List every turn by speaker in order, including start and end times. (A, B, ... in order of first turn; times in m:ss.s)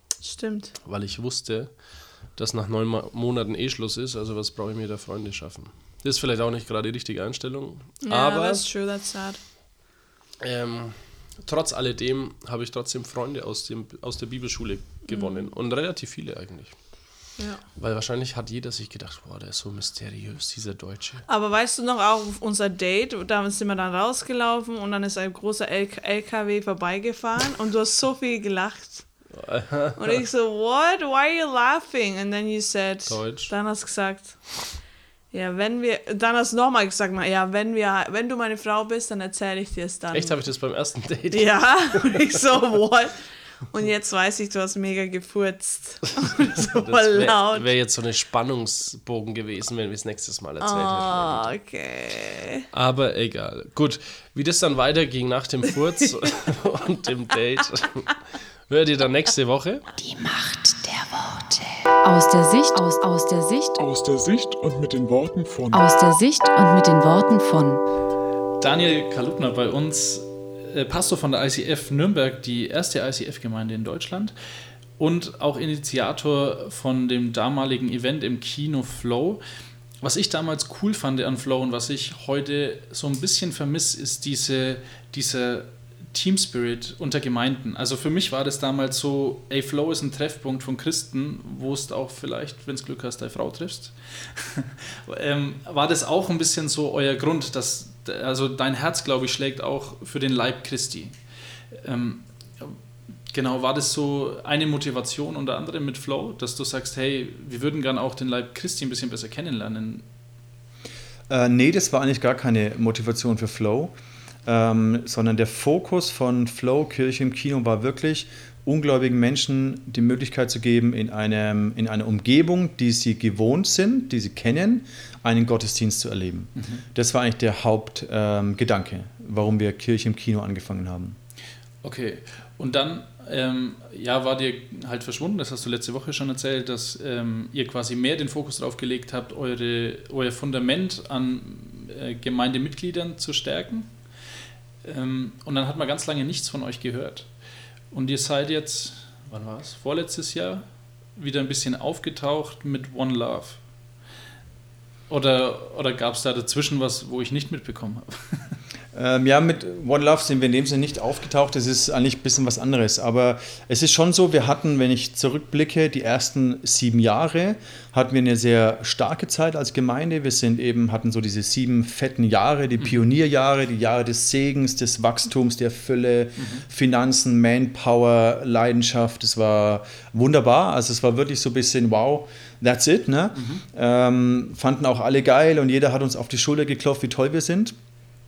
0:00.2-0:00.8 A
0:00.8-0:08.6 B
0:08.0-0:09.4 A
0:10.4-0:21.2 B
0:15.1-0:15.5 A
0:17.4-0:17.6 A
0:21.3-0:29.1 A
0:29.3-0:30.2 B
0:30.0-0:34.6 A
0:33.1-0:33.5 B
0:35.3-0:40.5 A
0:40.1-0:42.2 B
0:41.3-0:47.8 A
0:46.2-0:51.5 B
0:50.6-0:52.6 A
0:52.7-0:58.1 B
0:58.7-0:59.8 B
1:00.0-1:03.8 C
1:03.8-1:05.8 D
1:05.7-1:07.8 C
1:08.6-1:14.3 E
1:15.0-1:19.4 E
1:20.0-1:41.2 E
1:41.8-1:42.8 E
1:43.3-1:50.0 E
1:51.3-1:54.0 F
1:54.5-2:11.2 F
2:06.6-2:06.8 E
2:11.8-2:23.9 E
2:24.8-2:27.3 E
2:27.9-2:33.6 E
2:35.1-2:38.5 E
2:38.9-3:07.8 F
2:52.8-2:53.0 E
2:56.4-2:56.6 E
3:03.3-3:03.6 E